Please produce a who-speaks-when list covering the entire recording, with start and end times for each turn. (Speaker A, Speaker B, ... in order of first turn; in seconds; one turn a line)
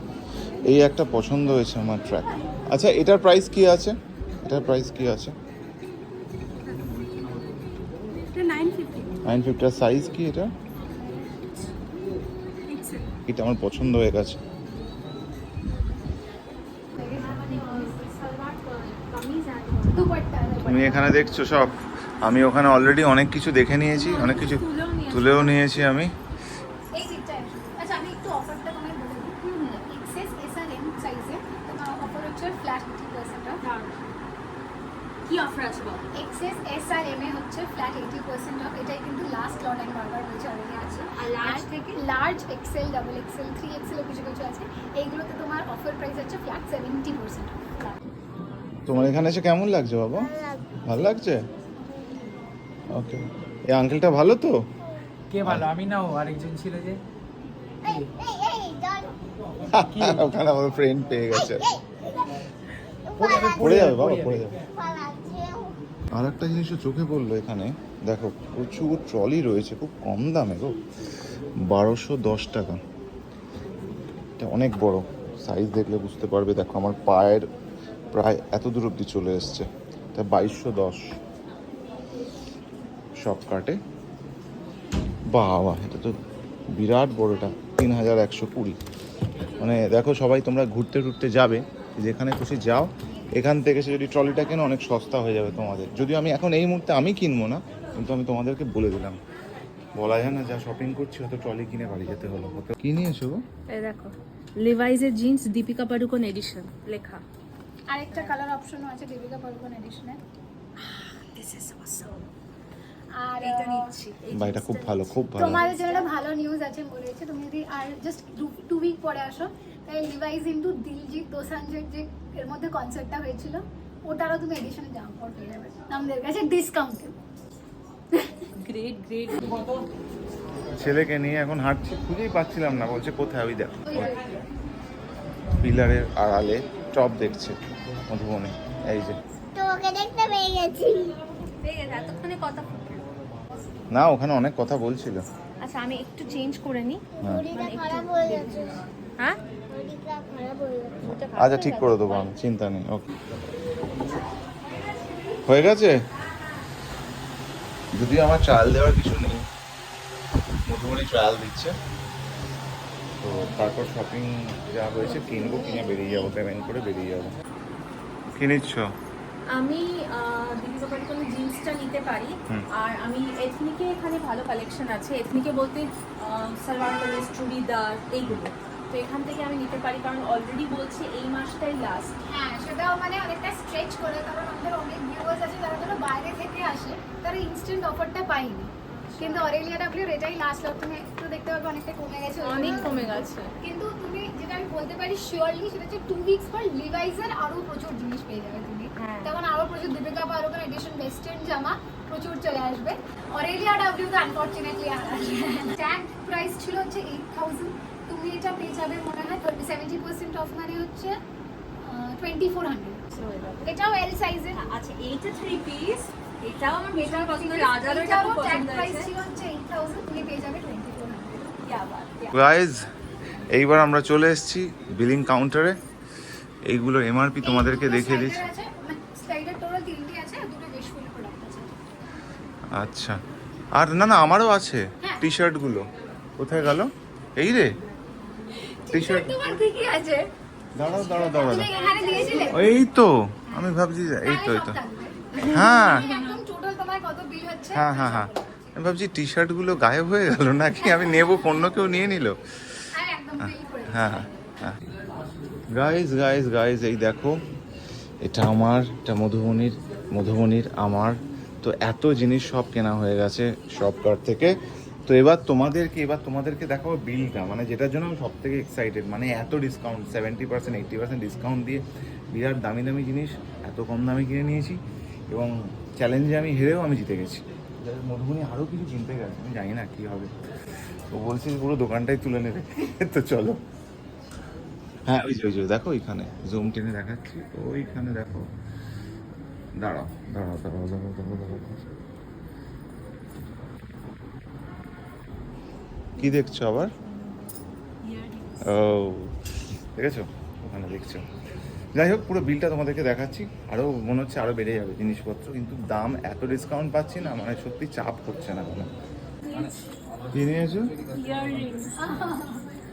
Speaker A: 0.7-5.3
Speaker B: 6.7-6.9
Speaker B: 8.3-9.1
Speaker A: 9.2-10.5
Speaker B: 11.3-11.6
Speaker B: 12.6-13.1
Speaker A: 13.3-14.4
Speaker C: 17.0-17.6
Speaker B: 17.1-20.1
Speaker C: 19.9-21.1
Speaker A: 20.6-26.1
Speaker B: 23.9-25.7
Speaker C: 26.9-33.6
Speaker B: 29.5-29.8
Speaker B: 33.6-34.0
Speaker B: 35.2-36.1
Speaker C: 36.1-47.6
Speaker B: 40.7-41.9
Speaker A: 48.9-50.3
Speaker D: 50.2-51.1
Speaker A: 50.9-51.4
Speaker A: 52.9-54.6
Speaker E: 55.3-57.0
Speaker A: 55.4-55.7
Speaker D: 57.8-59.1
Speaker A: 59.7-61.6
Speaker E: 59.9-60.2
Speaker D: 61.3-62.3
Speaker D: 63.1-64.0
Speaker E: 63.2-64.4
Speaker A: 63.3-64.5
Speaker D: 64.7-65.7
Speaker A: 66.1-70.8
Speaker A: 71.6-72.8
Speaker A: 74.4-77.5
Speaker A: 78.1-81.2
Speaker A: 83.2-83.8
Speaker A: 85.3-86.2
Speaker A: 86.7-88.8
Speaker A: 89.6-99.2
Speaker A: 100.0-103.4
Speaker B: 103.7-107.2
Speaker C: 107.9-110.2
Speaker B: 110.8-112.2
Speaker C: 113.2-113.9
Speaker B: 113.4-116.1
Speaker A: 114.3-115.6
Speaker C: 115.3-127.1
Speaker B: 128.6-129.6
Speaker A: 130.7-134.1
Speaker A: 135.6-137.6
Speaker A: 138.1-139.2
Speaker D: 139.5-141.2
Speaker B: 141.6-143.1
Speaker A: 143.9-145.2
Speaker B: 145.6-148.5
Speaker D: 147.1-148.8
Speaker D: 149.7-151.1
Speaker B: 151.1-152.3
Speaker A: 151.3-153.2
Speaker B: 154.0-155.6
Speaker A: 155.5-156.0
Speaker B: 156.1-156.6
Speaker A: 157.9-159.4
Speaker A: 160.7-161.7
Speaker A: 163.2-167.3
Speaker A: 168.3-168.9
Speaker B: 169.5-182.1
Speaker C: 182.3-211.2
Speaker B: 189.1-189.5
Speaker B: 192.4-193.5
Speaker B: 199.0-199.3
Speaker C: 211.8-213.0
Speaker B: 213.1-213.8
Speaker C: 213.6-214.6
Speaker B: 214.5-219.1
Speaker C: 217.0-221.6
Speaker B: 221.6-222.4
Speaker A: 222.3-222.8
Speaker A: 223.5-225.8
Speaker A: 226.7-228.5
Speaker C: 227.4-231.8
Speaker A: 232.7-233.2
Speaker A: 233.8-235.9
Speaker C: 235.0-235.3
Speaker A: 236.4-237.7
Speaker C: 238.6-240.3
Speaker A: 238.9-239.3
Speaker A: 240.8-241.7
Speaker C: 240.8-242.7
Speaker B: 241.4-242.6
Speaker A: 242.5-244.8
Speaker C: 244.2-248.8
Speaker B: 245.4-246.4
Speaker A: 245.5-246.0
Speaker A: 247.7-252.4
Speaker C: 252.9-254.3
Speaker A: 253.4-254.8
Speaker A: 255.7-257.4
Speaker A: 258.2-280.3
Speaker A: 281.1-283.6
Speaker A: 285.1-288.5
Speaker A: 289.7-291.9
Speaker A: 296.2-296.9
Speaker B: 298.0-298.6
Speaker A: 298.6-299.3
Speaker A: 299.9-301.2
Speaker A: 301.9-308.9
Speaker B: 309.4-309.8
Speaker A: 310.3-310.9
Speaker B: 311.1-312.1
Speaker C: 312.0-312.6